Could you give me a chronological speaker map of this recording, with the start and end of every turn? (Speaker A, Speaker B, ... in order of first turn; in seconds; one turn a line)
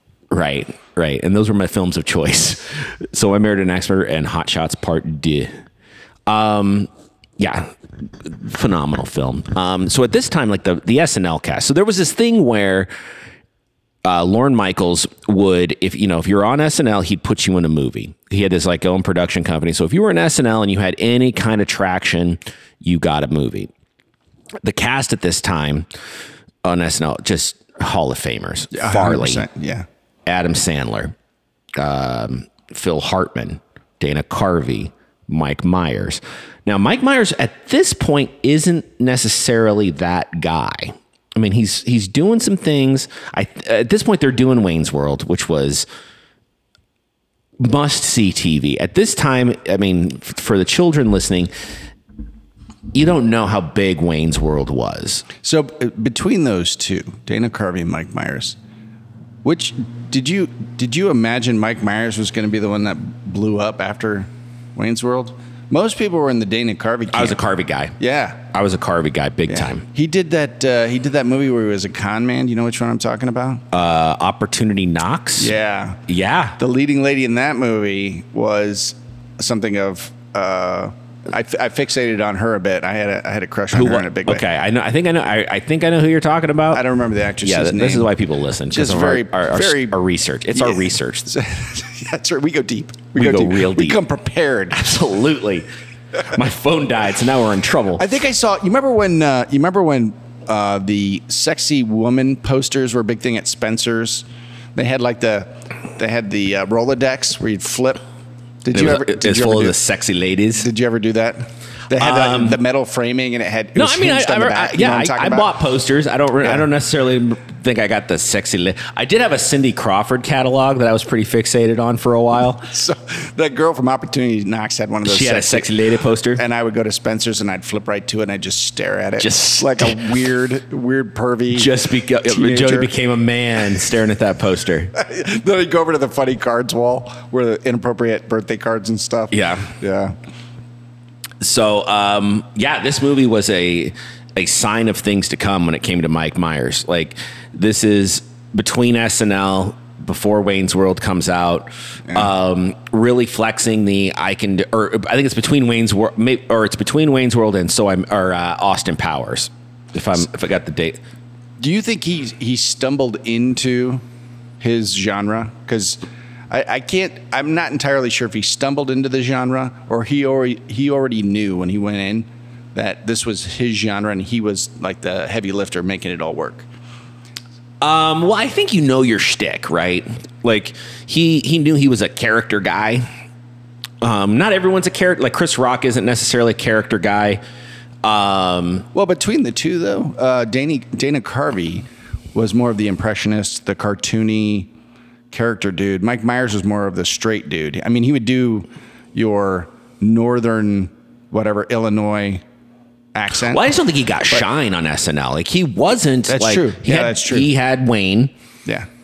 Speaker A: 0.3-5.5
Speaker A: 6.3-12.9
Speaker A: 14.0-23.7
Speaker A: 24.6-25.9
Speaker A: 26.6-29.4
Speaker B: 28.7-29.9
Speaker A: 30.3-31.1
Speaker A: 31.8-45.9
Speaker A: 47.6-51.5
Speaker A: 52.9-55.3
Speaker B: 55.4-58.6
Speaker B: 59.4-67.4
Speaker A: 67.1-68.0
Speaker B: 68.0-68.4
Speaker A: 68.5-69.8
Speaker B: 69.5-73.6
Speaker A: 73.7-75.5
Speaker B: 75.4-76.0
Speaker A: 76.1-76.6
Speaker B: 76.6-84.4
Speaker A: 83.7-86.8
Speaker B: 86.7-88.1
Speaker A: 87.4-91.3
Speaker B: 88.7-90.0
Speaker B: 90.5-94.9
Speaker A: 93.2-94.0
Speaker A: 94.7-95.7
Speaker A: 96.3-98.0
Speaker B: 98.0-108.0
Speaker B: 108.6-109.8
Speaker A: 108.7-110.7
Speaker B: 110.6-115.5
Speaker A: 111.9-112.6
Speaker A: 113.8-122.7
Speaker B: 122.7-125.7
Speaker A: 125.0-126.4
Speaker B: 126.4-132.9
Speaker A: 129.2-130.2
Speaker A: 131.5-134.9
Speaker B: 134.9-140.2
Speaker A: 139.3-139.7
Speaker A: 141.4-161.0
Speaker B: 161.6-164.0
Speaker B: 164.6-176.7
Speaker A: 177.8-183.1
Speaker A: 184.0-187.4
Speaker A: 188.0-188.9
Speaker B: 188.9-194.7
Speaker B: 195.3-202.4
Speaker B: 203.1-203.7
Speaker A: 203.5-208.3
Speaker B: 206.3-207.5